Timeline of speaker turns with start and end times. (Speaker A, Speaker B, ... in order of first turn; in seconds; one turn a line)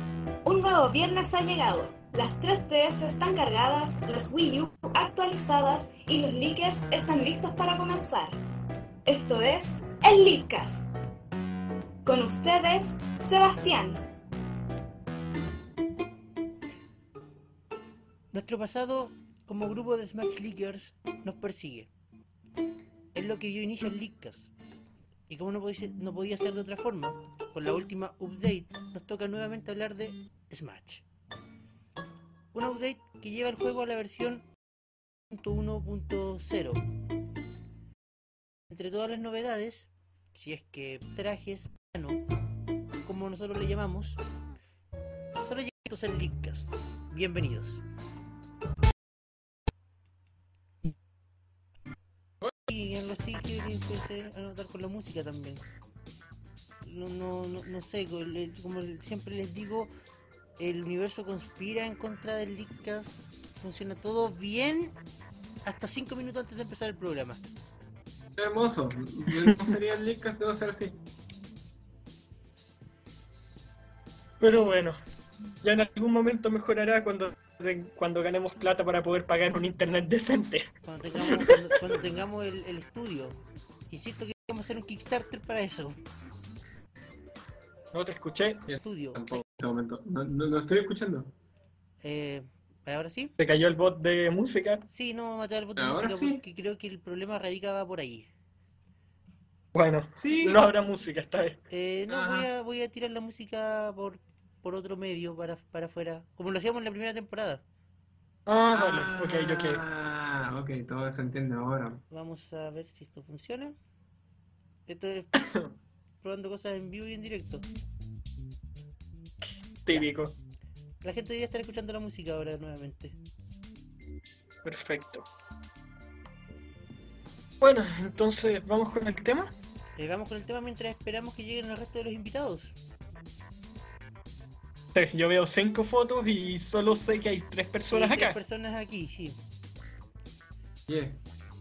Speaker A: 0.5-8.4
Speaker A: 9.1-10.9
Speaker A: 12.1-14.0
Speaker B: 18.3-21.9
Speaker B: 23.1-24.5
Speaker B: 25.3-31.0
Speaker B: 32.5-34.5
Speaker B: 35.3-36.8
Speaker B: 38.7-42.2
Speaker B: 43.0-44.2
Speaker B: 45.4-47.8
Speaker B: 52.7-55.6
Speaker B: 56.8-59.9
Speaker B: 60.6-65.0
Speaker B: 65.6-67.4
Speaker C: 68.4-71.0
Speaker D: 74.4-75.0
Speaker B: 74.5-74.7
Speaker D: 75.6-80.7
Speaker B: 80.8-83.4
Speaker D: 81.2-82.0
Speaker B: 83.9-86.0
Speaker D: 87.9-88.7
Speaker C: 88.7-91.3
Speaker B: 88.8-89.4
Speaker B: 92.0-93.3
Speaker D: 93.4-94.8
Speaker B: 94.9-98.3
Speaker C: 95.8-96.4
Speaker D: 99.7-101.6
Speaker C: 100.2-100.6
Speaker B: 101.7-107.6
Speaker C: 102.1-102.5
Speaker D: 108.5-109.8
Speaker C: 108.7-112.0
Speaker B: 112.1-113.8
Speaker B: 114.9-115.3
Speaker D: 115.3-115.7
Speaker B: 116.2-117.7
Speaker D: 119.8-120.4
Speaker B: 121.0-123.2
Speaker D: 124.6-125.3
Speaker D: 127.6-129.5
Speaker B: 130.0-132.8
Speaker D: 134.9-138.4
Speaker B: 137.9-139.4
Speaker C: 140.9-141.2